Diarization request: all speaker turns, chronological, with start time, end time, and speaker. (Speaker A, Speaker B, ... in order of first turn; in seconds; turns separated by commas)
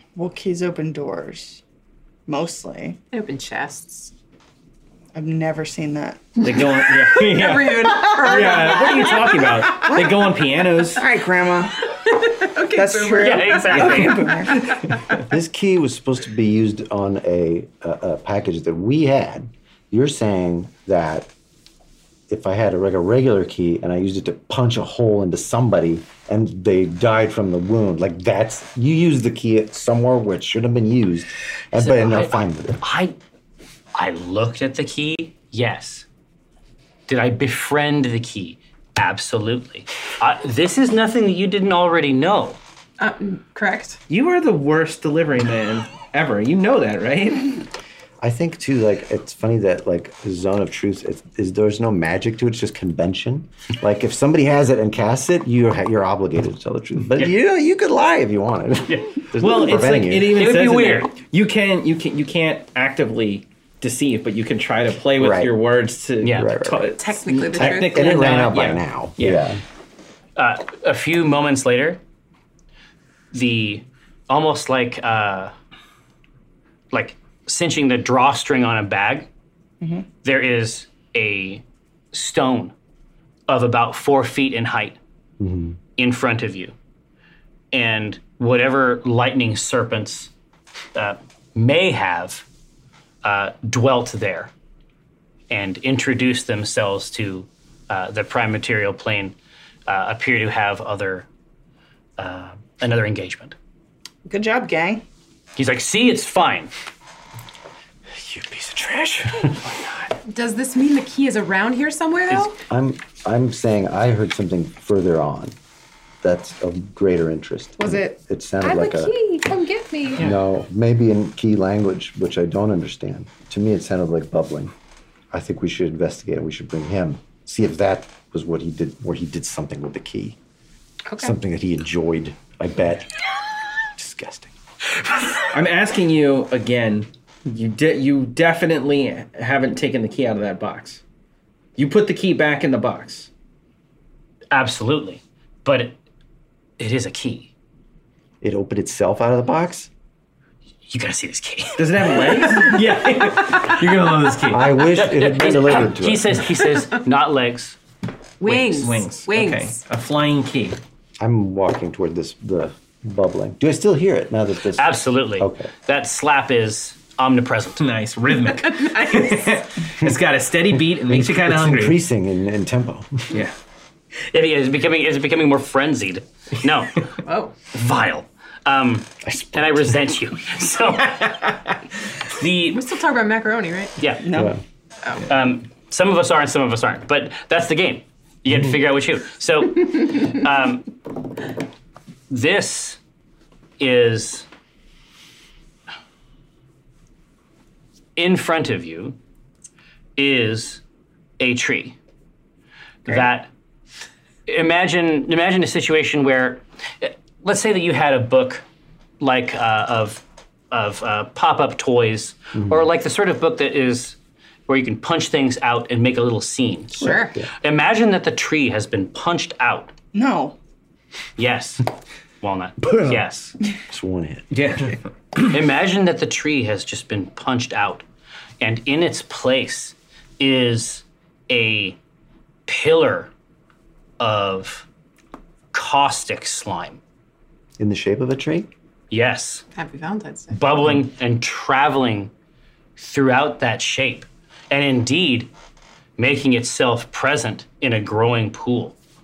Speaker A: 0.2-1.6, Speaker A: 2.3-3.0, Speaker B: 3.1-4.1, Speaker A: 5.1-6.6, Speaker C: 6.4-11.0, Speaker B: 7.1-10.0, Speaker A: 8.4-8.8, Speaker A: 9.8-10.3, Speaker A: 10.9-11.9, Speaker B: 12.1-14.6, Speaker A: 12.7-14.7, Speaker D: 13.2-14.3, Speaker C: 13.8-15.2, Speaker E: 15.2-21.3, Speaker E: 22.3-32.8, Speaker D: 31.8-33.2, Speaker D: 34.0-36.1, Speaker D: 37.1-42.6, Speaker B: 43.0-44.0, Speaker C: 44.1-47.7, Speaker E: 48.2-60.5, Speaker D: 58.9-59.2, Speaker C: 59.4-69.5, Speaker D: 60.3-61.1, Speaker E: 65.2-65.6, Speaker D: 66.2-66.5, Speaker E: 66.3-67.0, Speaker B: 67.0-68.5, Speaker E: 67.6-69.6, Speaker D: 70.4-72.0, Speaker D: 73.3-75.5, Speaker D: 76.9-79.3, Speaker A: 79.8-80.1, Speaker D: 80.2-82.7, Speaker D: 83.5-85.0, Speaker E: 85.4-85.8, Speaker D: 86.0-86.7, Speaker D: 87.7-90.3, Speaker D: 91.0-92.5, Speaker D: 93.2-94.5, Speaker D: 95.5-99.3, Speaker D: 99.9-101.3, Speaker D: 102.2-103.5, Speaker A: 104.3-105.0, Speaker D: 105.6-106.7, Speaker E: 108.2-109.9, Speaker B: 110.3-112.6, Speaker E: 112.7-115.6, Speaker E: 116.2-119.2, Speaker B: 117.8-120.2, Speaker E: 120.2-124.7, Speaker E: 125.3-130.4, Speaker E: 131.2-133.1, Speaker E: 134.0-134.5, Speaker C: 135.5-141.0, Speaker C: 141.8-143.3, Speaker D: 144.5-146.0, Speaker D: 146.8-147.5, Speaker E: 148.4-149.9, Speaker D: 150.9-152.4, Speaker C: 151.8-154.7, Speaker E: 154.5-156.4, Speaker D: 154.9-157.8, Speaker B: 158.4-159.8, Speaker C: 158.4-160.8, Speaker E: 161.2-165.7, Speaker D: 164.8-167.8, Speaker C: 167.8-172.0, Speaker B: 168.8-169.5, Speaker E: 171.0-173.4, Speaker D: 174.3-177.1, Speaker B: 177.2-177.5, Speaker D: 177.7-181.5, Speaker E: 179.2-180.1, Speaker D: 182.3-182.8, Speaker B: 182.7-183.9, Speaker D: 184.0-184.3, Speaker A: 184.2-184.6, Speaker E: 184.3-184.6, Speaker D: 185.3-190.9, Speaker D: 192.3-193.0, Speaker D: 193.8-194.5, Speaker D: 198.2-199.2, Speaker D: 200.2-200.8, Speaker D: 201.4-202.0, Speaker D: 203.1-203.5, Speaker D: 204.5-208.6, Speaker D: 209.2-214.2, Speaker E: 212.6-212.9, Speaker D: 214.7-219.9, Speaker E: 217.0-217.5, Speaker B: 217.0-217.3, Speaker A: 220.1-220.6, Speaker D: 221.4-221.8, Speaker D: 222.4-223.6, Speaker E: 222.8-223.2, Speaker E: 223.9-224.5, Speaker C: 224.5-225.5, Speaker D: 225.5-228.1, Speaker D: 228.6-232.0, Speaker D: 232.7-233.3, Speaker D: 234.2-234.9, Speaker D: 235.7-237.0, Speaker E: 237.8-238.7, Speaker D: 239.1-239.6, Speaker B: 239.8-240.6, Speaker D: 240.5-242.3, Speaker D: 243.0-245.5, Speaker D: 246.2-248.9